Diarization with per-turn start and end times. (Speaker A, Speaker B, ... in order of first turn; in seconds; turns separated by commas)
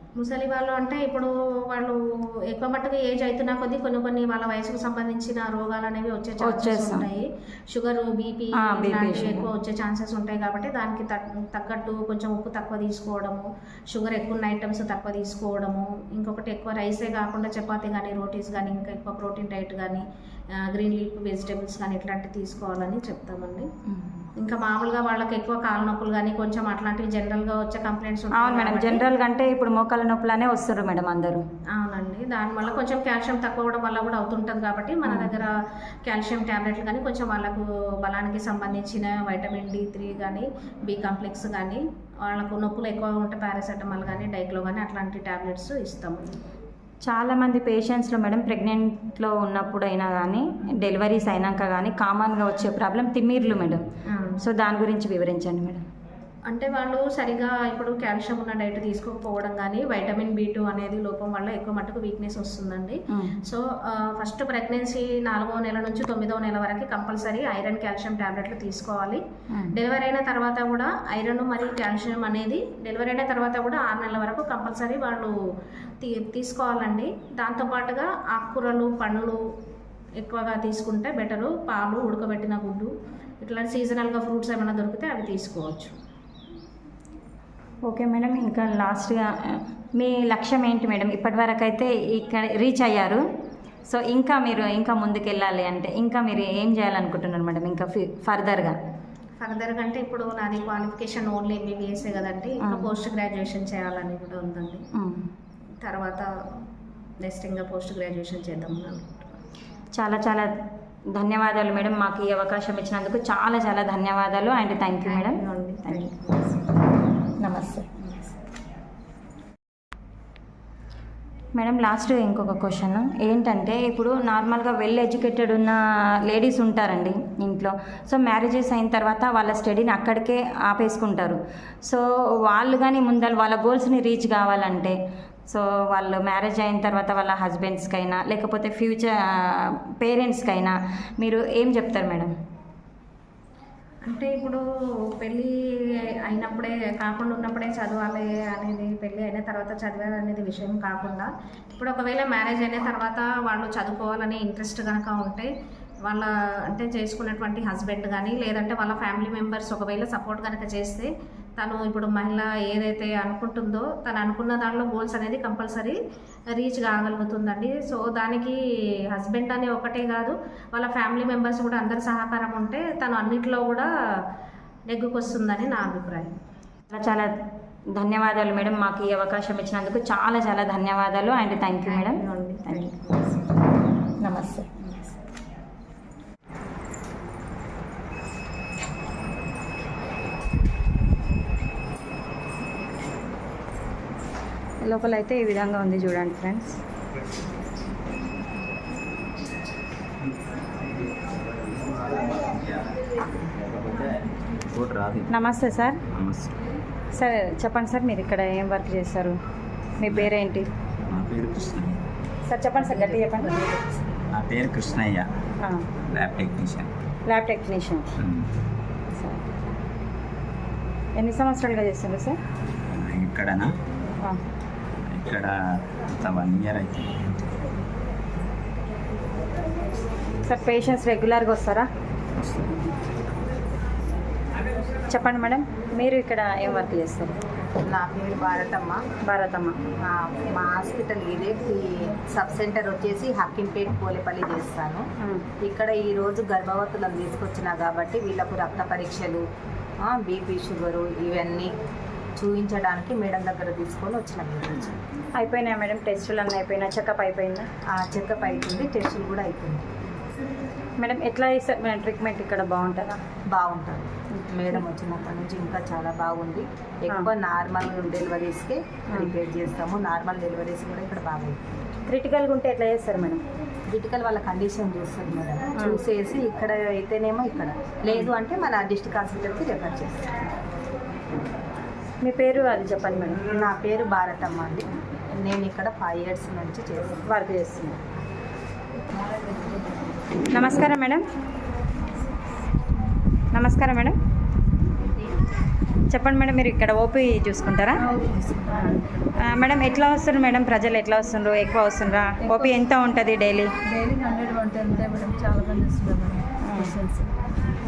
Speaker A: 0.2-23.7, Speaker B: 6.4-7.0, Speaker B: 8.6-9.5, Speaker B: 23.9-24.2, Speaker A: 24.4-29.0, Speaker B: 28.4-31.4, Speaker A: 31.7-35.5, Speaker A: 36.0-46.4, Speaker B: 47.1-53.8, Speaker A: 54.1-54.4, Speaker B: 54.4-55.8, Speaker A: 56.5-75.3, Speaker B: 63.1-63.4, Speaker A: 76.0-79.4, Speaker A: 80.2-85.9, Speaker B: 87.8-93.2, Speaker B: 93.9-98.8, Speaker A: 99.4-104.9, Speaker B: 104.9-105.3, Speaker A: 105.8-106.3, Speaker A: 107.2-109.3, Speaker B: 110.0-110.5, Speaker B: 111.1-116.1, Speaker A: 115.0-116.8, Speaker B: 117.4-117.9, Speaker A: 118.0-118.3, Speaker B: 121.5-135.0, Speaker B: 135.5-142.3, Speaker A: 144.0-155.5, Speaker A: 156.0-166.0, Speaker A: 166.5-168.6, Speaker A: 169.1-173.9, Speaker A: 174.9-176.3, Speaker B: 176.9-177.3, Speaker B: 177.9-182.9, Speaker A: 181.8-183.5, Speaker B: 184.2-184.7, Speaker B: 194.8-196.8, Speaker C: 200.5-205.3, Speaker B: 205.3-206.0, Speaker C: 206.0-206.6, Speaker B: 207.1-209.4, Speaker B: 210.0-210.7, Speaker C: 210.0-210.3, Speaker C: 211.0-212.0, Speaker B: 212.5-213.6, Speaker C: 214.3-215.3, Speaker B: 215.6-215.9, Speaker C: 216.1-216.9, Speaker B: 217.3-218.1, Speaker C: 218.2-218.5, Speaker B: 219.2-219.4, Speaker B: 221.2-222.4, Speaker C: 222.9-223.7, Speaker C: 225.1-225.5, Speaker C: 226.1-227.6, Speaker B: 230.4-231.9, Speaker B: 235.1-237.3, Speaker D: 237.8-239.0, Speaker B: 239.2-239.8, Speaker D: 240.0-245.1, Speaker B: 245.2-245.4, Speaker D: 245.6-249.5, Speaker D: 250.0-251.7, Speaker D: 252.3-255.0, Speaker B: 255.4-257.7, Speaker D: 257.9-259.9, Speaker B: 261.0-263.2, Speaker D: 263.5-271.6, Speaker B: 264.3-264.8, Speaker B: 272.1-273.4, Speaker D: 273.9-280.3, Speaker B: 282.2-283.5, Speaker D: 283.5-287.2, Speaker B: 287.3-288.0, Speaker B: 290.5-291.2, Speaker B: 293.5-294.2, Speaker B: 296.1-298.0, Speaker E: 298.0-299.7, Speaker B: 299.4-303.7, Speaker E: 302.4-302.8, Speaker E: 303.9-307.3, Speaker B: 306.6-306.9